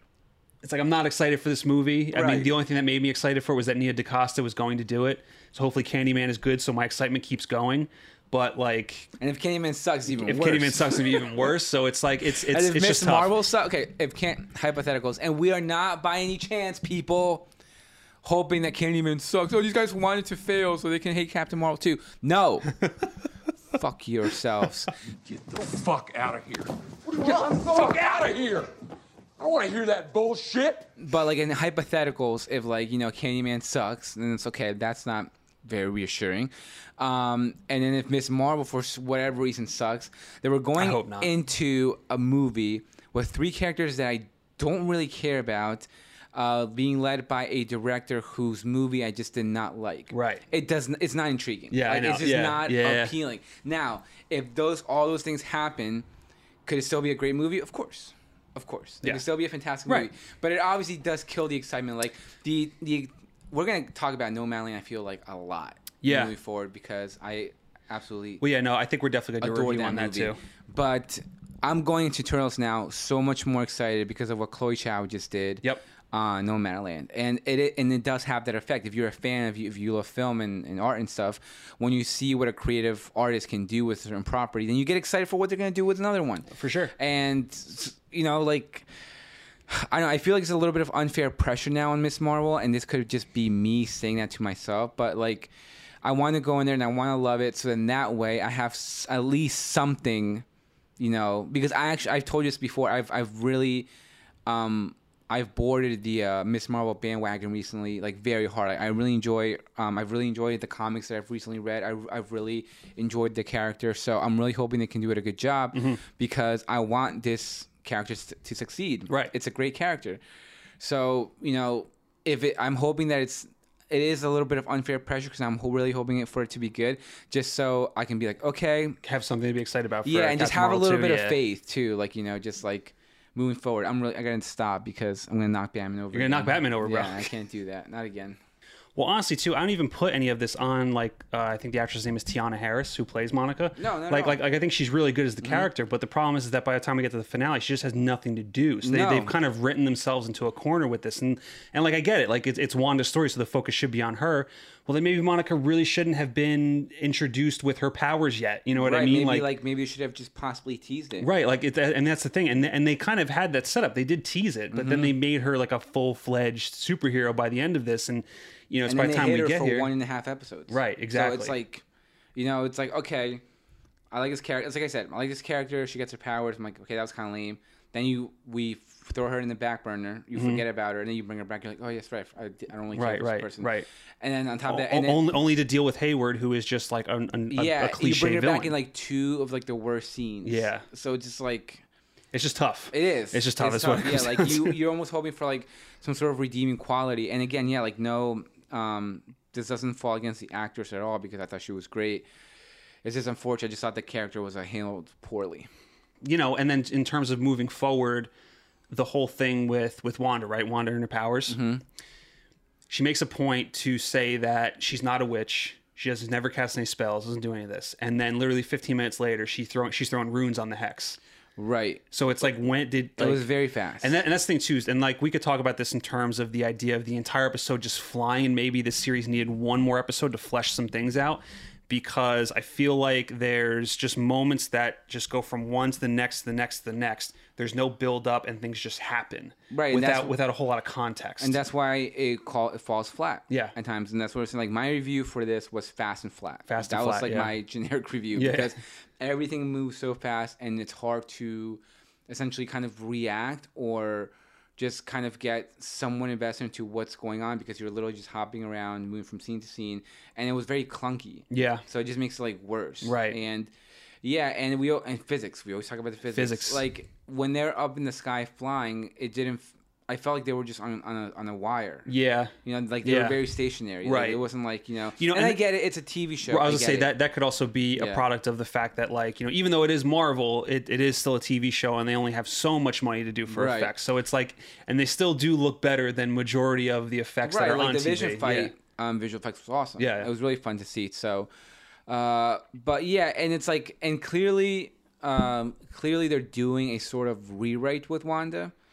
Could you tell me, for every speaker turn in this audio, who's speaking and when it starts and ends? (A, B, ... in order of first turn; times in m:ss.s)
0:00.6-0:09.1 A
0:02.1-0:02.5 B
0:09.2-0:11.2 B
0:10.2-0:13.3 A
0:12.5-0:17.5 B
0:18.2-0:22.7 B
0:23.7-0:24.9 B
0:25.2-0:28.7 C
0:29.4-0:30.9 C
0:31.0-0:56.0 B
0:40.8-0:41.3 A
0:50.1-0:50.4 A
0:51.7-0:53.1 A
0:56.6-1:08.4 B
1:06.0-1:06.3 A
1:08.4-1:10.4 A
1:09.4-1:28.8 B
1:26.5-1:26.9 A
1:29.7-1:35.5 B
1:36.0-1:40.4 B
1:41.0-1:43.9 B
1:44.5-2:00.2 B
1:55.7-1:56.0 A
2:00.8-2:09.0 B
2:09.0-2:11.4 A
2:10.0-2:18.4 B
2:16.1-2:17.3 A
2:18.9-2:39.5 A
2:23.8-2:24.4 B
2:25.4-2:25.7 B
2:28.8-2:29.3 B
2:38.7-2:41.3 B
2:41.2-2:49.9 A
2:44.7-2:45.2 B
2:48.8-2:51.8 B
2:50.7-2:51.6 A
2:52.3-2:53.4 B
2:54.1-3:05.2 B
3:00.3-3:00.6 A
3:02.9-3:03.9 A
3:04.7-3:08.7 A
3:07.5-3:11.8 B
3:10.4-3:10.8 A
3:12.3-3:14.8 A
3:12.9-3:22.3 B
3:23.0-3:25.7 B
3:26.2-3:28.3 A
3:28.9-3:31.6 A
3:31.5-3:31.8 B
3:32.9-3:41.2 A
3:41.6-3:42.0 B
3:42.1-3:43.5 A
3:43.2-3:44.2 B
3:44.0-4:01.6 A
3:59.7-4:00.4 B
4:01.4-4:23.7 B
4:06.7-4:07.5 A
4:08.3-4:08.7 A
4:21.5-4:21.8 A
4:23.0-4:23.4 A
4:24.2-4:32.1 B
4:26.3-4:26.8 A
4:32.0-4:33.4 A
4:32.6-4:37.1 B
4:34.0-4:34.4 A
4:35.2-4:35.6 A
4:36.4-4:48.7 A
4:38.0-4:38.2 B
4:43.5-4:43.9 B
4:47.4-4:51.5 B
4:50.0-4:50.3 A
4:52.1-4:58.7 B